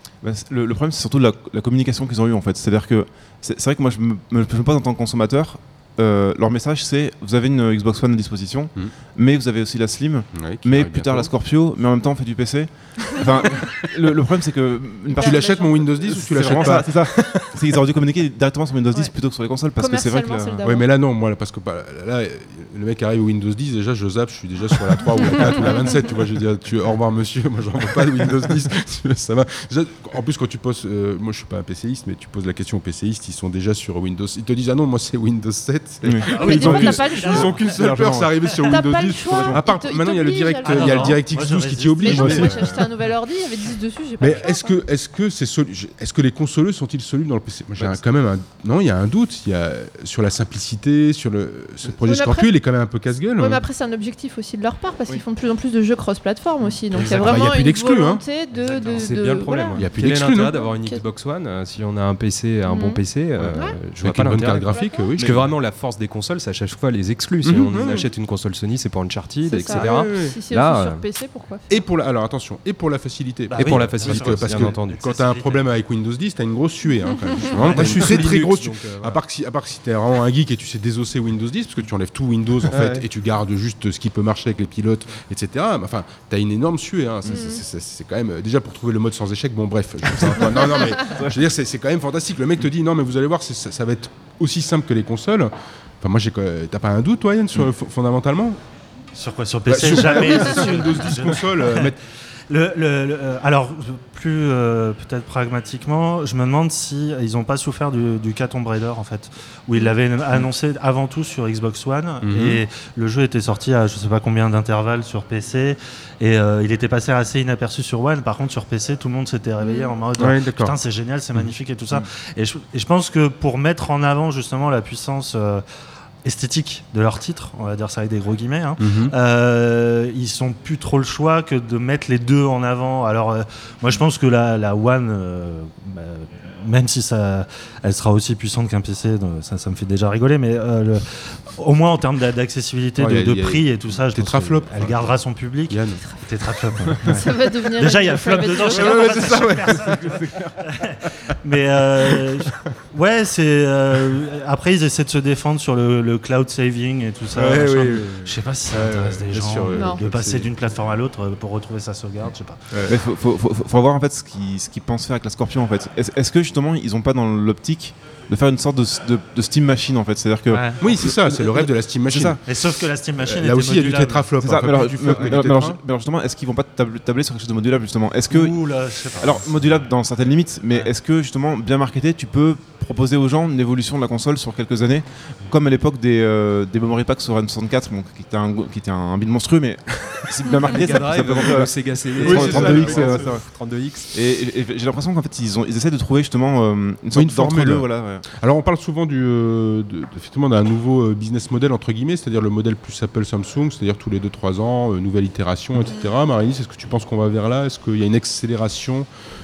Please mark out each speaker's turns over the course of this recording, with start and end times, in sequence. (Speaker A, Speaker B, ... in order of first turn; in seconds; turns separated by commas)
Speaker A: 0.2-20.6, Speaker B: 10.3-11.3, Speaker C: 15.1-16.9, Speaker B: 15.2-17.5, Speaker C: 19.7-20.9, Speaker B: 20.6-42.9, Speaker C: 25.3-25.9, Speaker A: 36.0-39.6, Speaker D: 36.3-37.7, Speaker C: 36.3-37.5, Speaker C: 38.6-41.2, Speaker D: 40.6-42.6, Speaker C: 42.0-44.8, Speaker B: 44.2-53.6, Speaker C: 52.0-52.5, Speaker C: 53.4-61.0, Speaker D: 56.9-57.4, Speaker B: 56.9-58.2, Speaker D: 58.5-59.1, Speaker E: 58.9-71.0, Speaker B: 59.8-60.6, Speaker C: 62.7-63.0, Speaker B: 63.4-65.5, Speaker C: 64.7-65.1, Speaker B: 67.4-68.1, Speaker C: 69.5-71.7, Speaker B: 69.7-70.4, Speaker B: 71.7-98.6, Speaker D: 73.5-75.7, Speaker E: 73.6-75.0, Speaker C: 76.9-77.5, Speaker E: 77.6-79.2, Speaker D: 77.6-78.0, Speaker E: 82.7-83.0, Speaker C: 87.3-87.6, Speaker A: 90.2-90.5, Speaker A: 91.1-91.3, Speaker D: 99.1-101.9, Speaker B: 99.7-102.0, Speaker D: 102.5-125.6, Speaker B: 112.2-112.6, Speaker C: 119.6-119.9, Speaker B: 120.2-120.8, Speaker B: 121.3-122.0, Speaker D: 126.2-162.9, Speaker B: 128.8-129.1, Speaker B: 143.0-146.0, Speaker C: 147.1-149.5, Speaker B: 148.6-150.5, Speaker B: 152.0-152.5, Speaker B: 157.3-160.5, Speaker C: 159.7-160.0, Speaker A: 162.9-172.4, Speaker D: 170.5-170.8, Speaker B: 170.8-172.6, Speaker D: 172.5-174.3, Speaker B: 173.2-175.8, Speaker A: 174.4-198.2, Speaker D: 178.3-179.9, Speaker E: 190.7-194.1, Speaker B: 192.2-193.4, Speaker B: 197.1-209.1